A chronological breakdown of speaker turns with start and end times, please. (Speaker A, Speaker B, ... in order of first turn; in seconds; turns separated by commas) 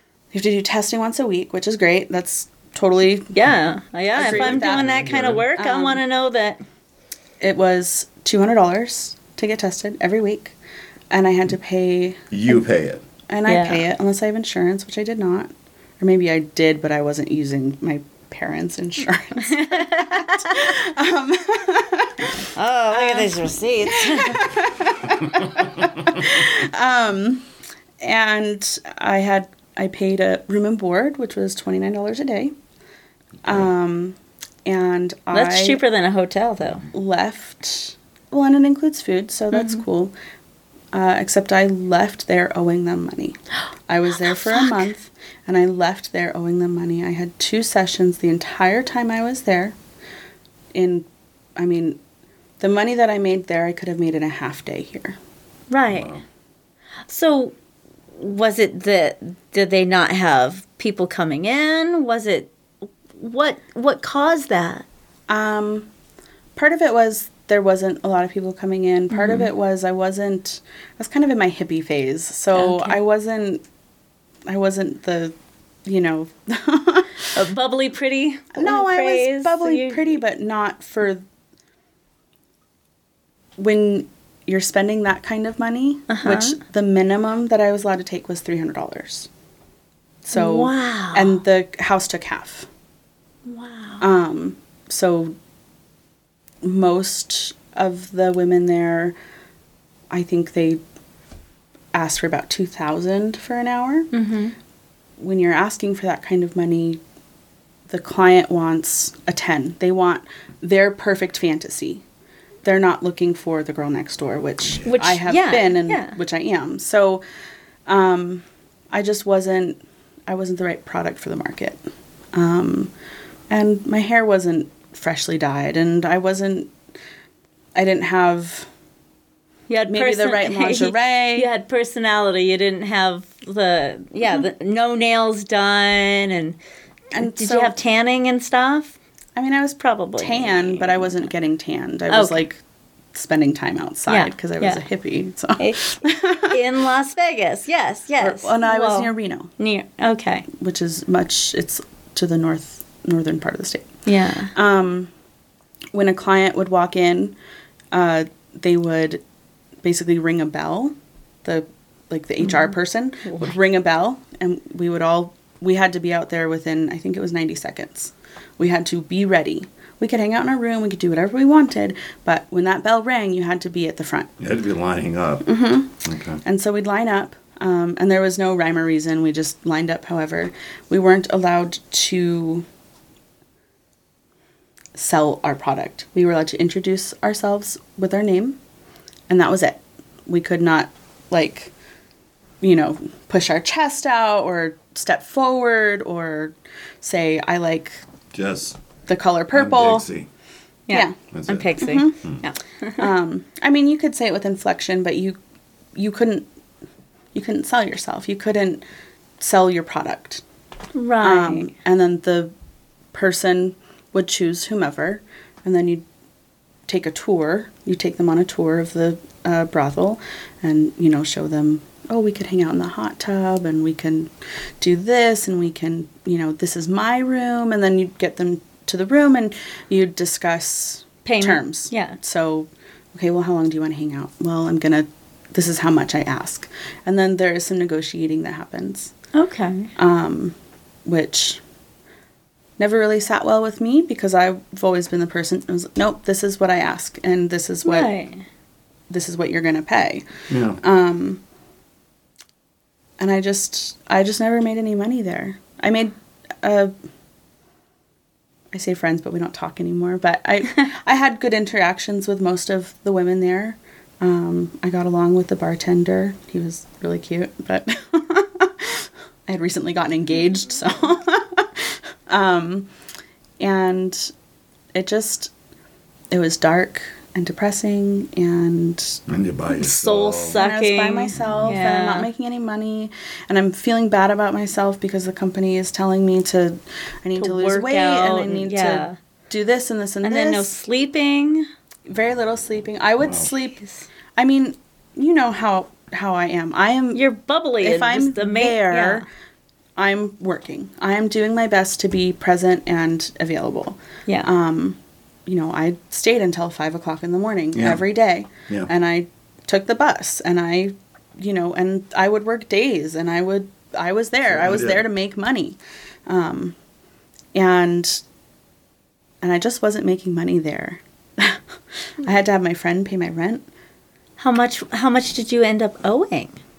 Speaker A: 0.3-3.4, Speaker B: 3.3-6.6, Speaker A: 4.1-6.0, Speaker C: 4.2-5.5, Speaker A: 7.4-10.6, Speaker A: 11.1-12.6, Speaker C: 12.3-13.0, Speaker A: 13.3-22.3, Speaker B: 13.5-13.8, Speaker B: 19.4-20.7, Speaker B: 22.5-24.5, Speaker A: 22.9-27.4, Speaker A: 28.0-32.5, Speaker A: 33.4-35.8, Speaker B: 35.3-36.9, Speaker A: 36.9-40.1, Speaker B: 39.5-39.8, Speaker A: 40.9-49.8, Speaker B: 44.2-44.9, Speaker A: 50.7-52.0, Speaker A: 52.6-55.2, Speaker B: 55.7-56.1, Speaker C: 55.9-56.2, Speaker B: 57.1-57.5, Speaker B: 58.1-62.5, Speaker B: 63.1-64.8, Speaker A: 65.3-65.9, Speaker A: 66.5-73.6, Speaker B: 69.1-69.5, Speaker B: 72.5-73.0, Speaker A: 74.5-75.3, Speaker A: 75.8-77.4, Speaker B: 77.3-80.2, Speaker A: 78.5-81.2, Speaker A: 83.6-89.3, Speaker B: 86.1-86.6, Speaker A: 90.2-92.7, Speaker B: 90.3-91.4, Speaker B: 93.5-94.0, Speaker A: 94.0-95.4, Speaker A: 96.6-99.1, Speaker A: 100.1-100.8, Speaker A: 101.9-104.1, Speaker B: 104.1-104.5, Speaker A: 105.2-107.0, Speaker A: 107.9-112.0, Speaker A: 112.6-117.2, Speaker B: 114.8-116.2, Speaker A: 117.9-121.8, Speaker A: 122.3-122.9, Speaker A: 123.5-126.7, Speaker A: 127.7-128.7, Speaker B: 129.7-136.6, Speaker A: 129.9-131.5, Speaker A: 137.1-137.8, Speaker B: 137.2-138.9, Speaker A: 139.3-142.6, Speaker B: 139.8-141.2, Speaker B: 142.1-142.4, Speaker A: 143.1-146.6, Speaker B: 144.1-144.8, Speaker B: 145.6-150.5, Speaker A: 148.2-149.5, Speaker A: 150.5-153.9, Speaker B: 154.1-154.5, Speaker A: 154.5-155.1, Speaker A: 155.9-157.3, Speaker A: 157.9-159.2, Speaker A: 159.8-174.3, Speaker B: 162.4-162.7, Speaker B: 163.3-163.5, Speaker C: 174.4-175.5, Speaker A: 175.4-182.7, Speaker C: 176.0-176.4, Speaker A: 184.9-188.6, Speaker A: 189.3-191.7, Speaker A: 192.6-198.0, Speaker C: 198.3-198.8, Speaker A: 199.1-200.1, Speaker C: 199.5-200.3, Speaker B: 200.9-203.1, Speaker A: 200.9-201.2, Speaker C: 201.3-202.4, Speaker A: 201.8-202.2, Speaker A: 203.0-205.4, Speaker A: 205.9-206.4, Speaker A: 207.3-208.8, Speaker A: 209.4-210.4, Speaker B: 210.9-211.7, Speaker A: 211.2-212.5, Speaker A: 213.1-216.0, Speaker A: 216.9-239.1, Speaker B: 231.2-232.2, Speaker B: 239.3-239.9, Speaker A: 239.9-240.5, Speaker A: 241.1-241.6, Speaker A: 242.8-248.1, Speaker B: 247.8-248.4, Speaker A: 249.1-251.4, Speaker C: 250.5-250.8, Speaker A: 253.2-256.9, Speaker A: 258.7-272.9, Speaker A: 273.6-274.3, Speaker A: 274.9-275.5, Speaker A: 276.3-279.2, Speaker C: 279.3-280.6, Speaker B: 279.7-282.3, Speaker A: 280.6-290.7, Speaker B: 287.4-289.1, Speaker B: 290.2-291.7, Speaker A: 292.1-293.8, Speaker A: 294.4-297.2, Speaker B: 297.1-299.2, Speaker A: 297.8-299.2, Speaker A: 300.0-316.8, Speaker C: 307.7-308.0, Speaker C: 314.5-315.0, Speaker A: 317.5-318.2, Speaker A: 319.4-321.6, Speaker A: 322.2-323.6, Speaker B: 324.4-326.6